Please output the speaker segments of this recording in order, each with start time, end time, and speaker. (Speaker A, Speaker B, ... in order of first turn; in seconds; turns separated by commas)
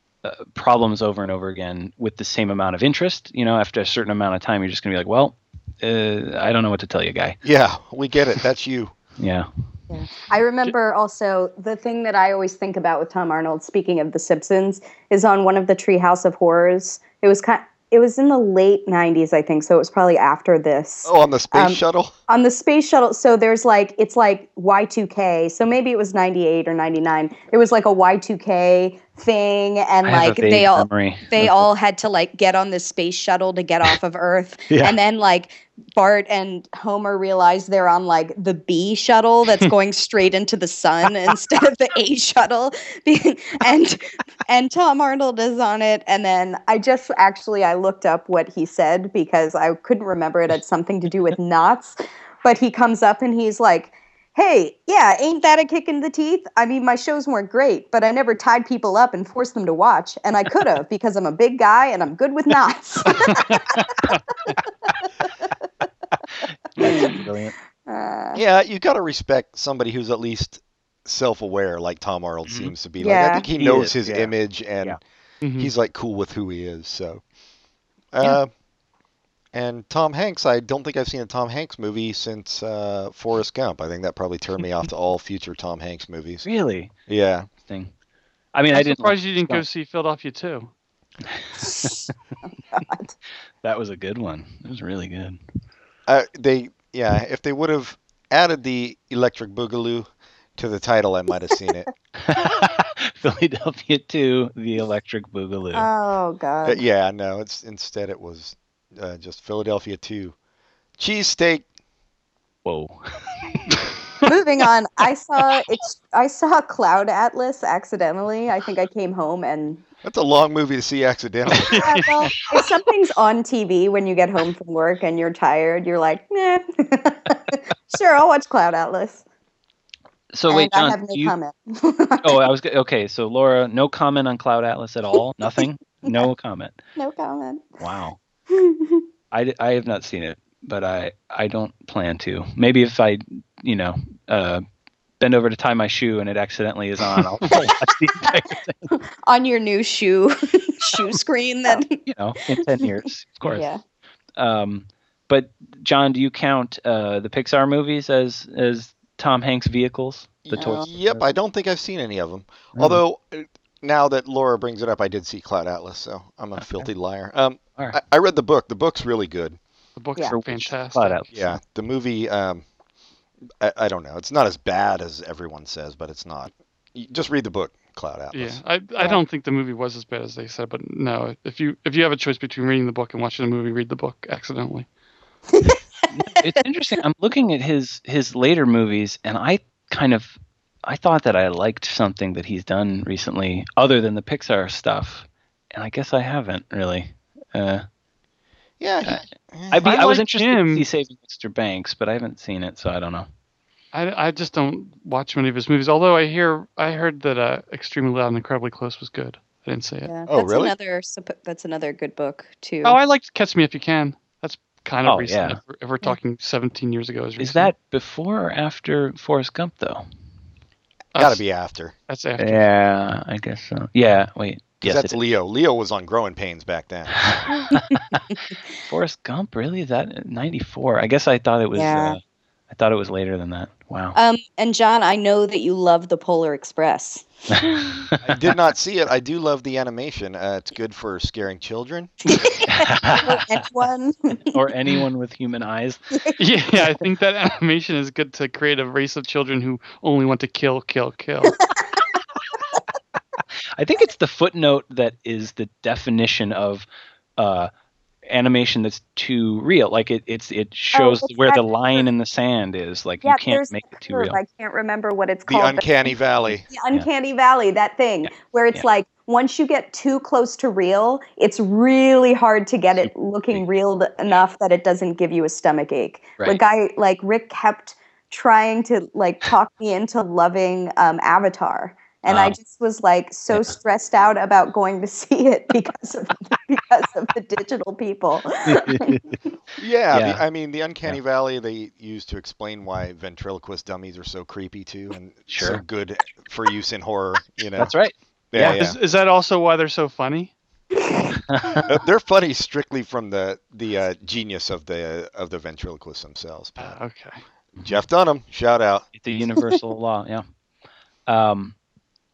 Speaker A: 0.2-7.4, Speaker B: 7.4-8.9, Speaker A: 9.2-9.5, Speaker C: 9.9-63.8, Speaker B: 21.0-22.1, Speaker A: 30.0-31.7, Speaker A: 34.7-35.0, Speaker D: 63.1-64.2, Speaker A: 66.7-67.5, Speaker C: 66.8-67.2, Speaker C: 67.9-68.4, Speaker B: 68.3-75.0, Speaker A: 72.5-72.7, Speaker C: 73.0-73.5, Speaker A: 73.5-75.0, Speaker D: 75.4-75.7, Speaker B: 75.6-77.2, Speaker B: 78.1-78.5, Speaker B: 79.5-86.5, Speaker A: 86.4-86.9, Speaker B: 87.1-87.5, Speaker A: 87.7-87.9, Speaker A: 88.5-89.6, Speaker D: 88.7-90.7, Speaker A: 91.3-92.0, Speaker C: 91.6-91.9, Speaker C: 92.7-93.1, Speaker A: 93.6-95.4, Speaker B: 96.1-101.9, Speaker A: 102.2-105.9, Speaker C: 105.7-106.8, Speaker B: 106.6-110.3, Speaker B: 111.0-111.7, Speaker A: 112.6-113.3, Speaker C: 114.2-119.8, Speaker B: 120.0-121.9, Speaker D: 121.5-122.3, Speaker C: 121.7-129.2, Speaker A: 130.3-131.3, Speaker C: 130.5-132.5, Speaker A: 132.2-136.8, Speaker C: 135.6-136.3, Speaker C: 137.0-137.7, Speaker A: 137.8-138.2, Speaker C: 138.5-139.0, Speaker A: 139.3-144.6, Speaker A: 145.2-148.9, Speaker C: 148.9-152.0, Speaker A: 152.0-153.7, Speaker C: 153.4-153.8, Speaker A: 154.3-161.2, Speaker B: 160.4-169.6, Speaker A: 162.7-163.0, Speaker A: 166.6-166.9, Speaker D: 170.0-171.2, Speaker A: 170.3-171.6, Speaker B: 171.3-172.6, Speaker B: 173.6-178.6, Speaker D: 178.3-184.9, Speaker C: 185.5-185.8, Speaker A: 186.1-197.8, Speaker B: 198.8-200.0, Speaker A: 199.0-203.3, Speaker D: 199.8-200.8, Speaker D: 203.9-210.1, Speaker C: 210.1-213.0, Speaker B: 210.3-210.7, Speaker D: 212.8-217.7, Speaker A: 215.1-215.6, Speaker A: 217.4-220.0, Speaker D: 221.1-221.4, Speaker B: 221.2-221.9, Speaker D: 222.1-222.6, Speaker A: 222.4-225.2, Speaker B: 224.8-227.3, Speaker A: 227.2-228.2, Speaker A: 228.8-232.2, Speaker C: 231.7-232.2, Speaker A: 232.7-234.2, Speaker C: 234.1-238.0, Speaker A: 237.5-238.4, Speaker B: 238.2-242.1, Speaker C: 242.3-244.5, Speaker A: 242.7-243.4, Speaker A: 244.5-246.0, Speaker D: 246.4-251.6, Speaker C: 251.6-252.0, Speaker A: 253.8-256.9, Speaker A: 257.4-257.7, Speaker A: 258.3-264.4, Speaker C: 260.9-262.0, Speaker C: 263.2-266.1, Speaker B: 265.5-266.6, Speaker C: 266.7-289.2, Speaker A: 268.2-268.8, Speaker A: 273.0-273.6, Speaker A: 282.3-282.6, Speaker A: 288.7-289.3, Speaker B: 289.8-297.9, Speaker A: 290.1-290.4, Speaker A: 295.5-295.8, Speaker A: 297.8-298.8, Speaker B: 298.5-299.0, Speaker D: 298.6-300.5, Speaker C: 300.9-301.3, Speaker A: 301.5-301.9, Speaker B: 301.8-307.0, Speaker D: 306.8-307.4, Speaker B: 307.8-309.1, Speaker A: 309.2-310.4, Speaker A: 311.3-311.7